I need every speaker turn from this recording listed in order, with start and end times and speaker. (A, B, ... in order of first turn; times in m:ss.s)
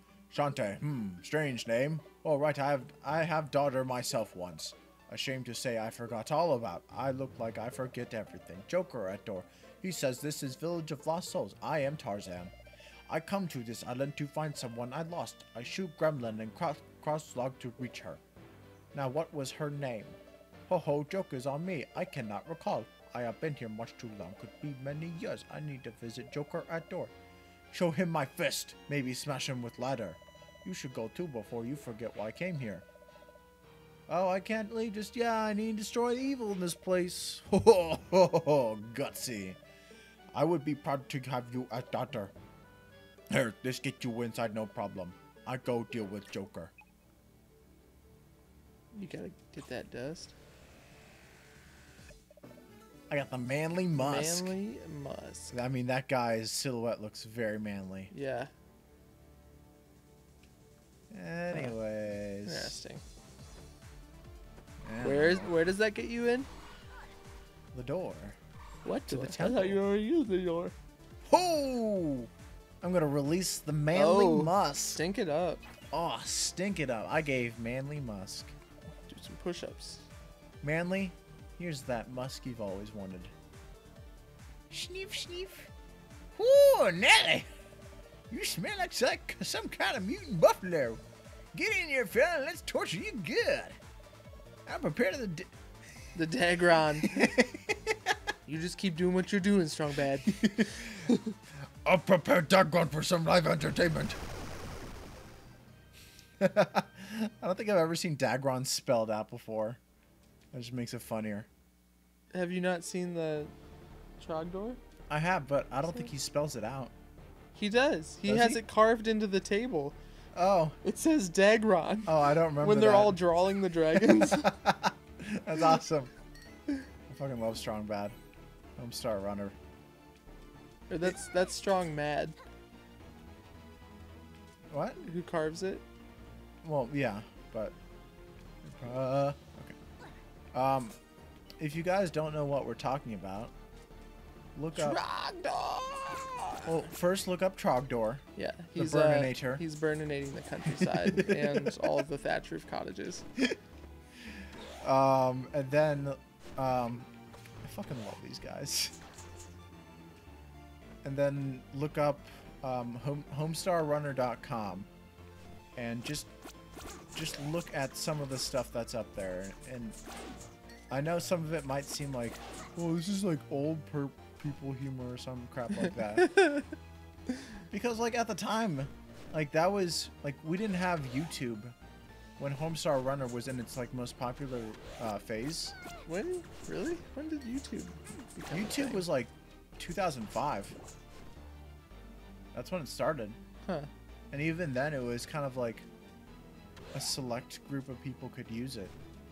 0:00.3-0:12.5 A
0:13.1-0:18.2 A
0:18.9-0:27.1 A
0:27.7-0:32.8 A
0:34.1-0:39.6 A
0:40.3-0:42.3 A
0:43.3-0:46.7 A
0:48.9-0:50.3 B
0:53.1-0:54.6 A
0:54.0-0:55.6 B
0:55.5-0:58.1 A
0:58.1-0:58.5 B
1:01.1-1:02.8 A
1:01.5-1:01.8 B
1:02.4-1:03.0 B
1:04.8-1:05.6 A
1:05.0-1:06.5 B
1:07.7-1:08.4 A
1:08.8-1:10.7 B
1:09.1-1:09.8 A
1:11.3-1:12.3 A
1:12.8-1:15.0 A
1:13.9-1:15.6 B
1:15.9-1:18.5 A
1:19.1-1:20.1 B
1:20.6-1:23.3 A
1:24.7-1:25.7 A
1:26.4-1:27.5 A
1:28.3-1:31.0 A
1:31.5-1:33.8 A
1:34.7-1:35.5 A
1:36.2-1:37.3 B
1:37.0-1:38.2 A
1:38.5-1:41.3 B
1:40.3-1:41.1 A
1:41.8-1:44.2 A
1:46.4-1:49.8 A
1:50.5-1:51.5 A
1:52.3-1:53.5 B
1:54.2-1:54.8 B
1:55.1-1:56.9 A
1:55.8-1:56.1 B
1:57.6-2:00.0 B
1:58.3-1:58.6 A
2:00.4-2:00.8 A
2:00.8-2:04.5 B
2:02.1-2:03.2 A
2:04.0-2:06.1 A
2:07.1-2:08.2 A
2:08.8-2:09.6 A
2:10.9-2:12.4 B
2:14.7-2:15.0 A
2:15.0-2:15.8 B
2:16.6-2:17.8 A
2:18.6-2:19.8 A
2:20.5-2:21.0 A
2:21.6-2:23.5 A
2:24.6-2:25.0 A
2:24.8-2:26.8 B
2:26.7-2:28.2 A
2:28.4-2:33.2 B
2:28.8-2:29.6 A
2:30.7-2:32.0 A
2:34.8-2:37.1 A
2:37.6-2:39.0 A
2:41.0-2:44.9 A
2:45.8-2:46.3 A
2:47.1-2:50.0 A
2:50.9-2:56.3 A
2:55.8-2:56.7 B
2:57.7-3:01.7 A
3:02.4-3:05.8 A
3:06.1-3:09.1 B
3:08.5-3:10.8 A
3:12.5-3:13.4 A
3:13.6-3:13.9 B
3:14.3-3:15.9 A
3:16.9-3:19.0 A